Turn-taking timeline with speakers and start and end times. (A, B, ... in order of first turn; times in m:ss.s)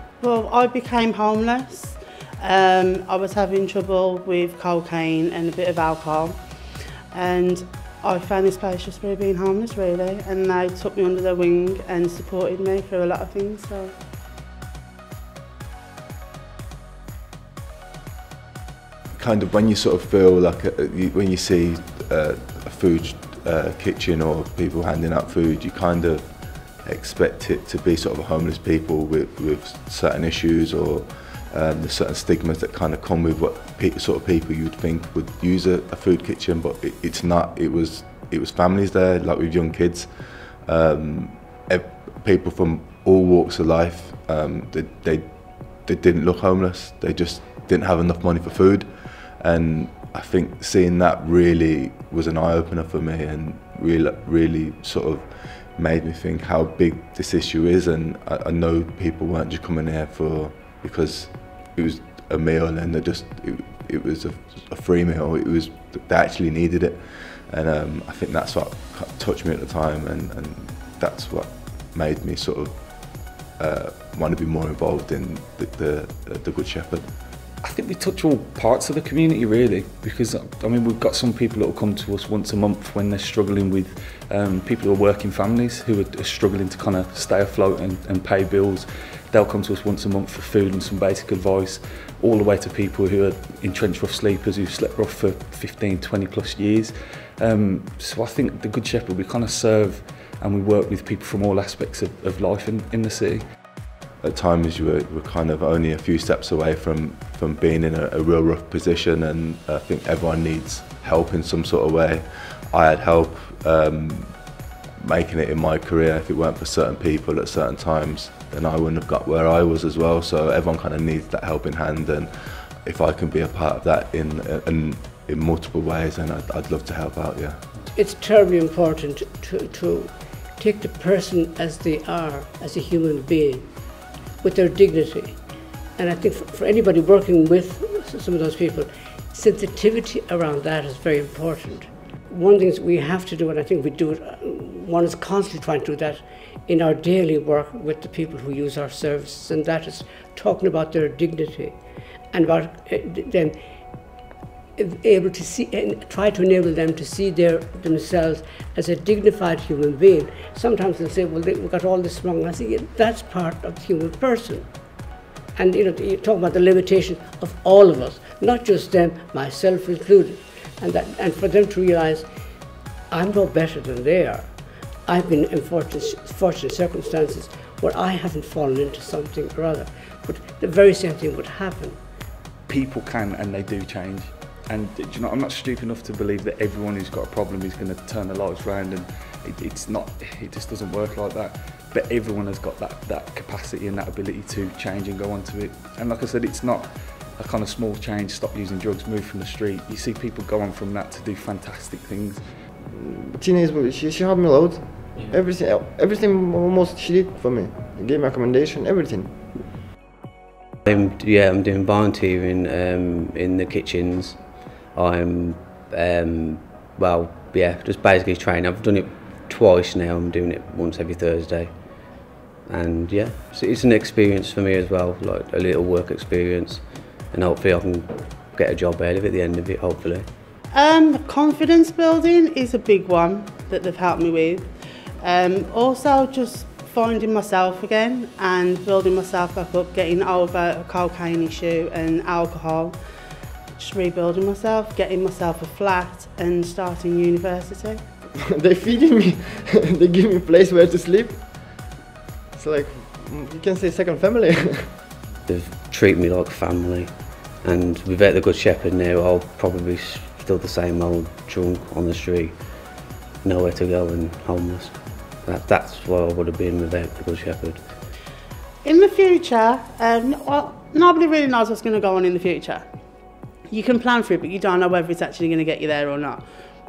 0:00.2-0:13.9 A
0:19.2-1:17.1 B
1:17.6-1:43.4 C
1:44.2-2:07.6 B
2:07.9-2:31.8 D
2:32.3-2:33.6 D
2:34.8-2:44.7 D
2:45.5-2:52.2 D
2:53.1-3:02.0 D
3:02.7-3:22.6 C
3:22.9-3:29.6 E
3:30.9-3:50.3 F
3:50.7-4:03.0 A
4:03.8-4:08.0 A
4:08.5-4:11.9 E
4:12.5-4:14.9 E
4:15.5-4:27.8 F
4:28.8-4:32.8 A
4:33.7-4:36.5 A